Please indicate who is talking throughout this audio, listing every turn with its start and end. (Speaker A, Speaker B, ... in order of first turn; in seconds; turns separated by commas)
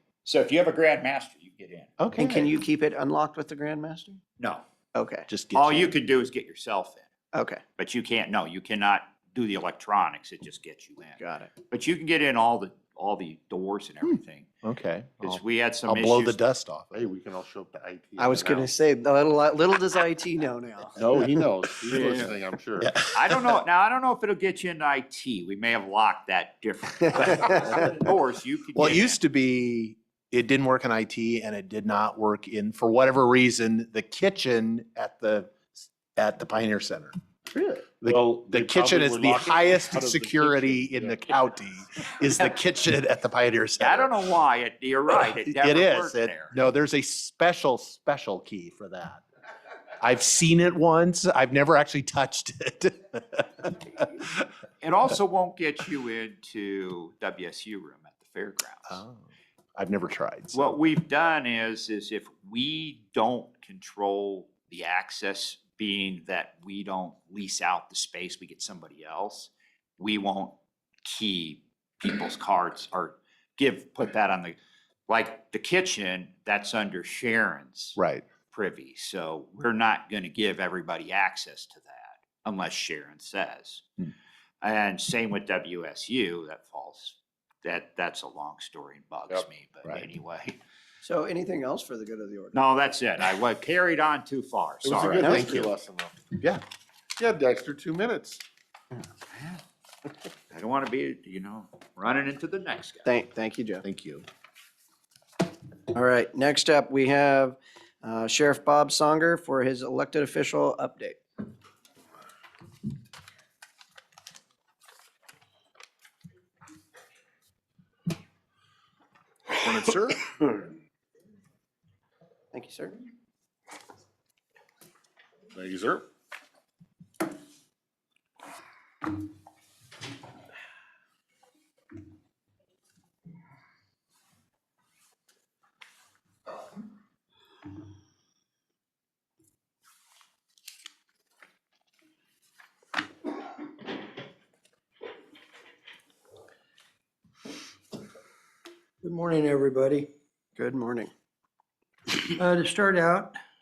Speaker A: 0.2-1.9, Speaker B: 2.0-2.5, Speaker C: 2.2-4.2, Speaker A: 4.4-4.6, Speaker C: 5.0-5.3, Speaker B: 5.3-6.0, Speaker A: 5.5-7.1, Speaker C: 7.3-7.6, Speaker A: 7.8-14.5, Speaker C: 11.2-11.5, Speaker B: 14.0-17.1, Speaker A: 15.2-16.4, Speaker D: 16.9-18.7, Speaker C: 18.2-22.2, Speaker D: 21.0-22.9, Speaker B: 21.9-23.6, Speaker A: 23.1-29.2, Speaker C: 27.2-28.0, Speaker B: 28.8-44.3, Speaker D: 38.0-41.5, Speaker A: 43.8-46.6, Speaker B: 45.1-49.2, Speaker B: 50.0-54.5, Speaker A: 54.8-59.0, Speaker B: 58.9-59.2, Speaker B: 59.8-60.6, Speaker A: 60.5-78.0, Speaker B: 78.0-78.3, Speaker A: 78.5-83.8, Speaker A: 84.6-90.6, Speaker C: 91.0-92.6, Speaker A: 92.5-95.7, Speaker D: 94.8-96.2, Speaker B: 95.0-95.3, Speaker C: 95.2-95.6, Speaker B: 96.4-96.6, Speaker D: 97.2-98.4, Speaker A: 99.3-99.6, Speaker A: 100.5-103.1, Speaker C: 103.0-103.8, Speaker B: 103.8-104.2, Speaker C: 105.9-111.2, Speaker B: 119.5-120.3, Speaker C: 122.5-123.0, Speaker D: 125.5-126.0, Speaker E: 149.1-150.1, Speaker C: 150.6-151.1, Speaker E: 152.4-153.3